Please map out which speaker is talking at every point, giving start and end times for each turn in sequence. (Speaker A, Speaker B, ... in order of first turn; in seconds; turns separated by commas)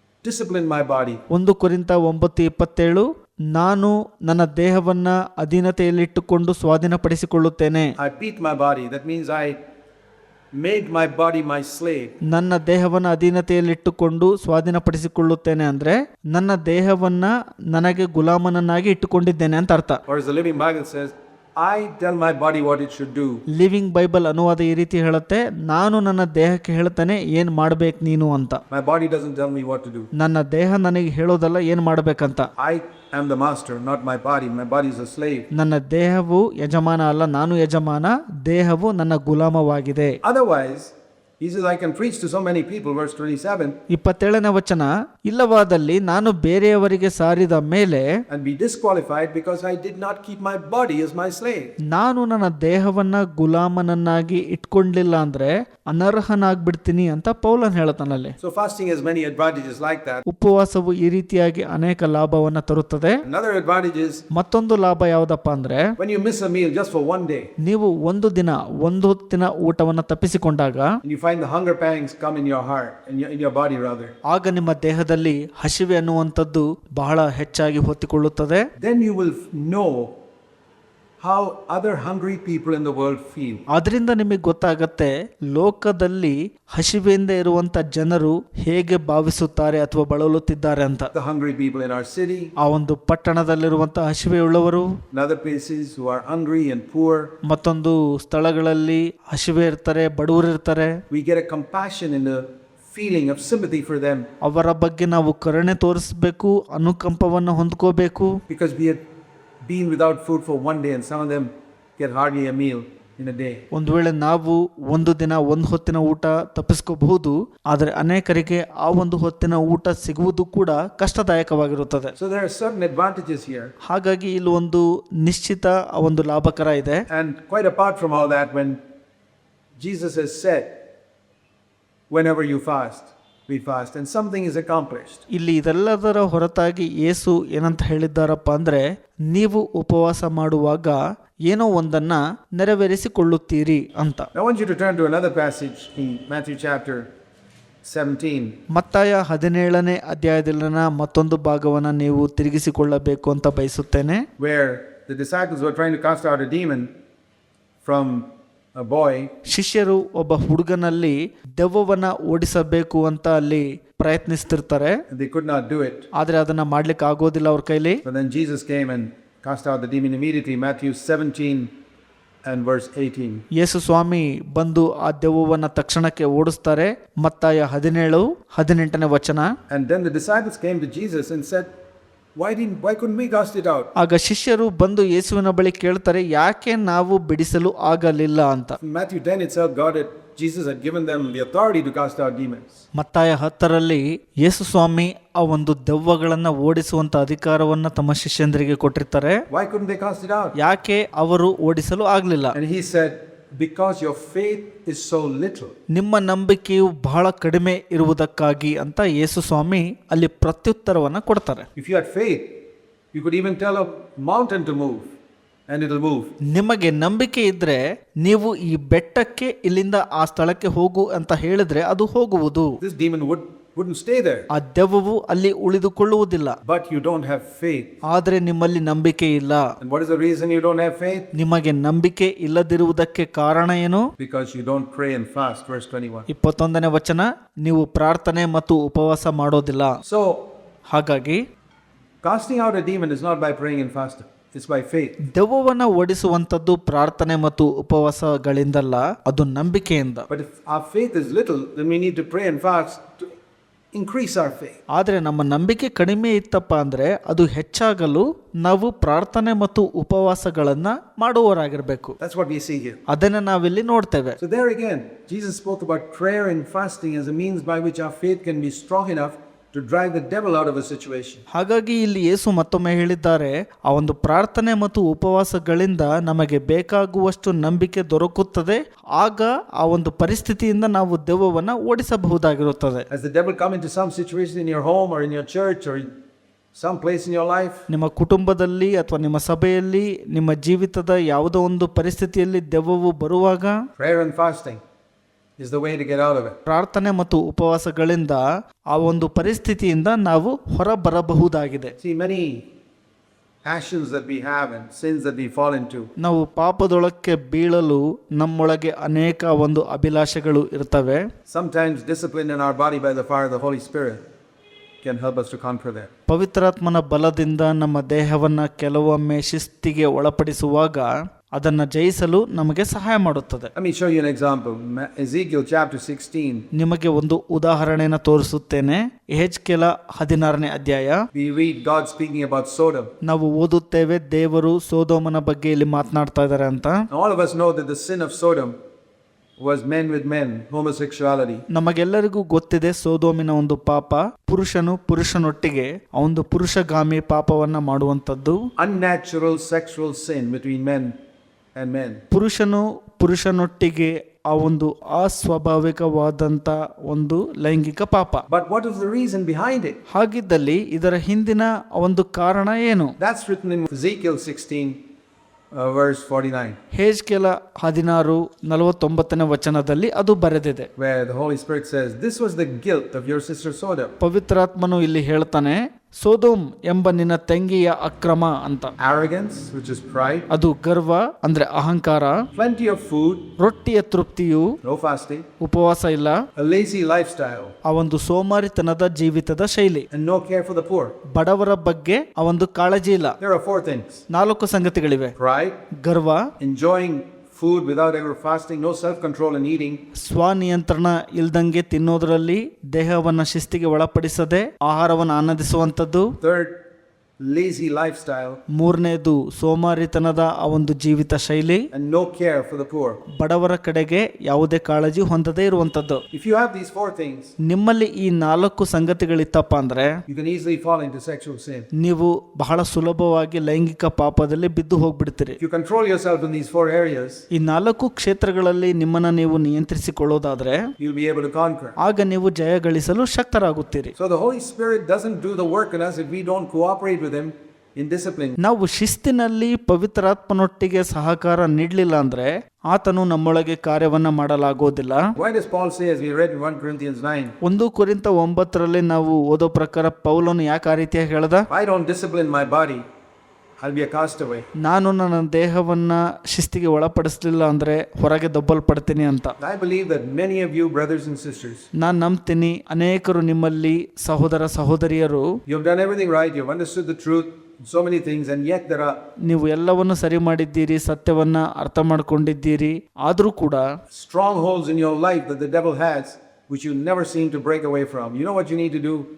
Speaker A: 0.2-1.2, Speaker B: 1.3-7.9, Speaker A: 8.0-9.6, Speaker A: 10.5-12.1, Speaker B: 12.3-20.0, Speaker A: 20.1-23.4, Speaker B: 23.5-28.6, Speaker A: 28.7-30.1, Speaker B: 30.2-32.5, Speaker A: 32.6-35.5, Speaker B: 35.5-40.2, Speaker A: 40.2-43.8, Speaker B: 43.9-48.0, Speaker A: 48.3-51.7, Speaker B: 51.9-58.4, Speaker A: 58.4-60.2, Speaker B: 60.3-63.2, Speaker A: 63.2-64.2, Speaker B: 64.3-65.8, Speaker A: 66.0-67.5, Speaker B: 67.6-70.9, Speaker A: 71.0-74.1, Speaker B: 74.3-78.6, Speaker A: 78.8-80.1, Speaker A: 81.2-83.6, Speaker B: 83.7-91.1, Speaker A: 91.1-92.5, Speaker B: 92.6-94.9, Speaker A: 95.1-97.3, Speaker B: 97.5-101.0, Speaker A: 101.1-104.2, Speaker B: 104.4-108.3, Speaker A: 108.5-109.0, Speaker A: 109.6-113.6, Speaker B: 113.7-122.1, Speaker A: 122.2-123.7, Speaker B: 123.9-127.0, Speaker A: 127.1-128.8, Speaker A: 129.8-130.7, Speaker A: 132.1-135.2, Speaker B: 135.3-144.3, Speaker A: 144.3-147.1, Speaker A: 147.8-148.6, Speaker B: 148.7-154.2, Speaker A: 154.4-156.9, Speaker A: 157.8-159.3, Speaker B: 159.5-165.0, Speaker A: 165.1-166.1, Speaker B: 166.2-168.0, Speaker A: 168.0-171.7, Speaker A: 172.4-173.4, Speaker B: 173.6-179.5, Speaker A: 179.7-181.7, Speaker A: 182.3-183.9, Speaker B: 184.0-188.8, Speaker A: 188.8-192.8, Speaker B: 193.0-199.4, Speaker A: 199.5-200.6, Speaker B: 200.6-202.6, Speaker A: 202.5-205.7, Speaker B: 205.9-211.7, Speaker A: 211.8-212.6, Speaker A: 213.1-215.1, Speaker A: 215.7-216.3, Speaker B: 216.5-222.8, Speaker A: 222.8-224.5, Speaker B: 224.5-226.6, Speaker A: 226.6-227.9, Speaker B: 228.1-229.6, Speaker A: 229.8-231.3, Speaker B: 231.3-234.0, Speaker A: 234.2-236.3, Speaker B: 236.3-240.0, Speaker A: 240.0-240.5, Speaker B: 240.9-241.4, Speaker A: 242.2-245.2, Speaker B: 245.3-250.3, Speaker A: 250.3-253.3, Speaker A: 253.9-254.8, Speaker B: 254.9-262.2, Speaker A: 262.2-263.0, Speaker B: 263.1-264.4, Speaker A: 264.4-271.4, Speaker B: 271.5-283.0, Speaker A: 283.1-286.1, Speaker A: 286.7-287.8, Speaker B: 287.9-293.8, Speaker A: 293.9-294.8, Speaker A: 295.6-296.6, Speaker B: 296.7-301.9, Speaker A: 302.0-302.6, Speaker A: 303.6-306.1, Speaker B: 306.2-311.2, Speaker A: 311.5-314.2, Speaker A: 315.0-316.1, Speaker B: 316.3-323.7, Speaker A: 323.7-326.6, Speaker B: 326.7-331.2, Speaker A: 331.3-333.1, Speaker B: 333.2-337.0, Speaker A: 337.1-338.7, Speaker A: 339.6-341.6, Speaker B: 341.7-348.6, Speaker A: 348.8-351.1, Speaker A: 351.7-352.2, Speaker B: 352.3-358.4, Speaker A: 358.5-360.0, Speaker B: 360.1-363.1, Speaker A: 363.2-365.0, Speaker A: 365.7-366.8, Speaker B: 366.9-370.9, Speaker A: 371.0-374.1, Speaker B: 374.2-378.9, Speaker A: 379.0-380.5, Speaker B: 380.5-382.4, Speaker A: 382.5-383.5, Speaker B: 383.6-384.7, Speaker A: 384.8-385.4, Speaker B: 385.6-386.4, Speaker A: 386.6-387.7, Speaker B: 387.8-390.0, Speaker A: 390.1-391.1, Speaker B: 391.3-393.4, Speaker A: 393.4-394.2, Speaker B: 394.3-395.3, Speaker A: 395.4-395.8, Speaker B: 396.0-396.4, Speaker A: 396.6-400.0, Speaker B: 400.2-406.3, Speaker A: 406.4-406.8, Speaker A: 407.4-408.6, Speaker B: 408.7-411.9, Speaker A: 411.9-413.2, Speaker B: 413.4-416.2, Speaker A: 416.3-417.5, Speaker B: 417.6-420.1, Speaker A: 420.3-421.9, Speaker B: 422.0-425.6, Speaker A: 425.6-427.4, Speaker B: 427.5-430.8, Speaker A: 431.0-431.9, Speaker B: 432.0-434.1, Speaker A: 434.1-438.6, Speaker B: 438.6-445.2, Speaker A: 445.4-447.5, Speaker B: 447.6-451.7, Speaker A: 451.7-453.0, Speaker A: 453.8-454.6, Speaker B: 454.8-459.5, Speaker A: 459.6-461.8, Speaker B: 462.0-465.5, Speaker A: 465.6-469.2, Speaker B: 469.4-473.8, Speaker A: 474.1-479.3